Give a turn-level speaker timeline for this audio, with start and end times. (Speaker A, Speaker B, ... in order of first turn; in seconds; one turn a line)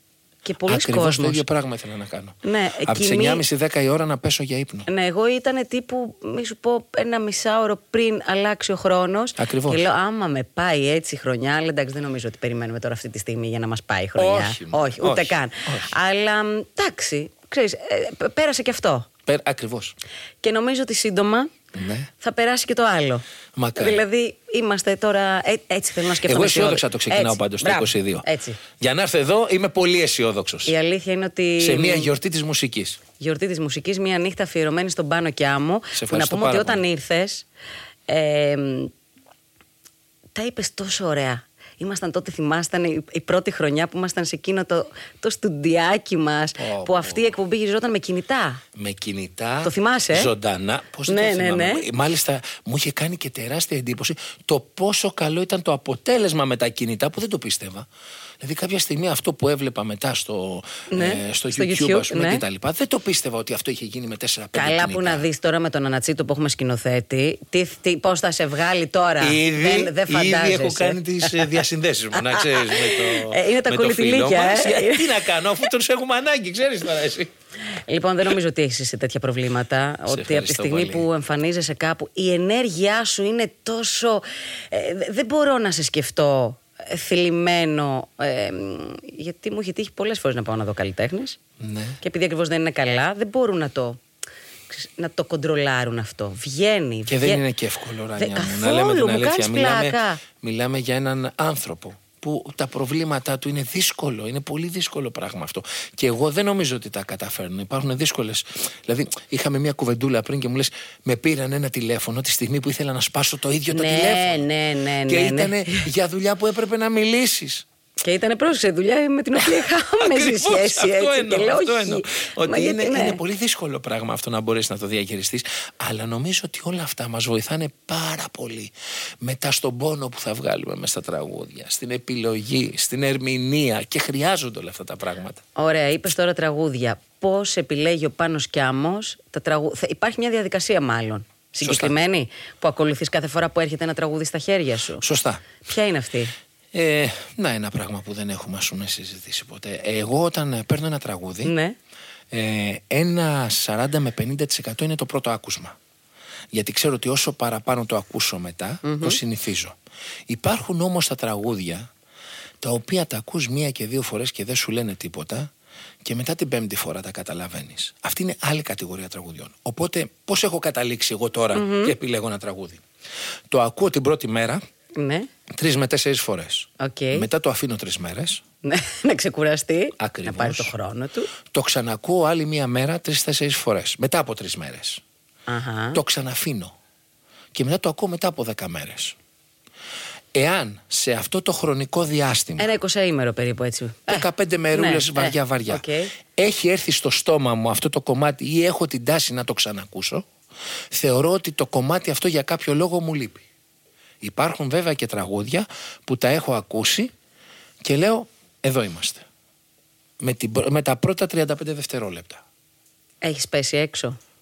Speaker A: 0.4-1.4
Speaker B: 0.7-4.9
Speaker A: 2.4-3.4
Speaker A: 4.9-19.1
Speaker B: 9.4-9.8
Speaker B: 14.2-15.9
Speaker B: 19.2-19.9
Speaker A: 20.4-21.5
Speaker B: 21.7-22.1
Speaker A: 22.2-23.2
Speaker B: 23.6-24.0
Speaker A: 23.8-28.6
Speaker B: 26.2-28.2
Speaker B: 28.8-30.7
Speaker A: 30.6-32.1
Speaker B: 31.6-33.0
Speaker A: 33.2-37.5
Speaker B: 35.9-36.8
Speaker A: 38.1-38.9
Speaker A: 40.3-48.6
Speaker B: 46.6-47.3
Speaker B: 48.7-57.9
Speaker A: 49.6-50.3
Speaker A: 51.1-51.9
Speaker B: 58.4-65.2
Speaker A: 60.9-62.4
Speaker A: 64.5-71.6
Speaker B: 69.2-77.3
Speaker A: 72.2-75.1
Speaker A: 77.7-91.4
Speaker B: 80.1-81.1
Speaker B: 91.6-92.0
Speaker A: 92.0-94.0
Speaker A: 94.7-97.4
Speaker B: 97.1-114.5
Speaker A: 98.2-100.2
Speaker A: 113.7-115.9
Speaker B: 115.1-117.6
Speaker A: 118.0-123.2
Speaker B: 119.6-135.4
Speaker A: 135.6-145.0
Speaker B: 141.6-141.9
Speaker B: 145.0-145.4
Speaker A: 145.6-146.3
Speaker B: 146.7-151.5
Speaker A: 151.4-151.8
Speaker B: 152.3-155.8
Speaker B: 156.5-159.8
Speaker A: 158.8-159.2
Speaker B: 160.3-161.9
Speaker B: 162.6-165.5
Speaker B: 166.0-172.8
Speaker A: 171.5-171.9
Speaker B: 173.5-174.6
Speaker A: 174.9-175.3
Speaker B: 175.5-178.4
Speaker A: 176.8-177.3
Speaker A: 178.6-181.3
Speaker B: 180.0-180.7
Speaker B: 181.5-185.0
Speaker A: 185.5-186.0
Speaker B: 185.9-186.7
Speaker B: 187.5-189.2
Speaker B: 190.3-192.7
Speaker A: 192.6-196.1
Speaker B: 194.1-195.8
Speaker B: 196.4-200.3
Speaker B: 200.9-203.4
Speaker B: 204.2-207.1
Speaker B: 207.8-209.2
Speaker B: 210.2-212.4
Speaker A: 213.2-214.2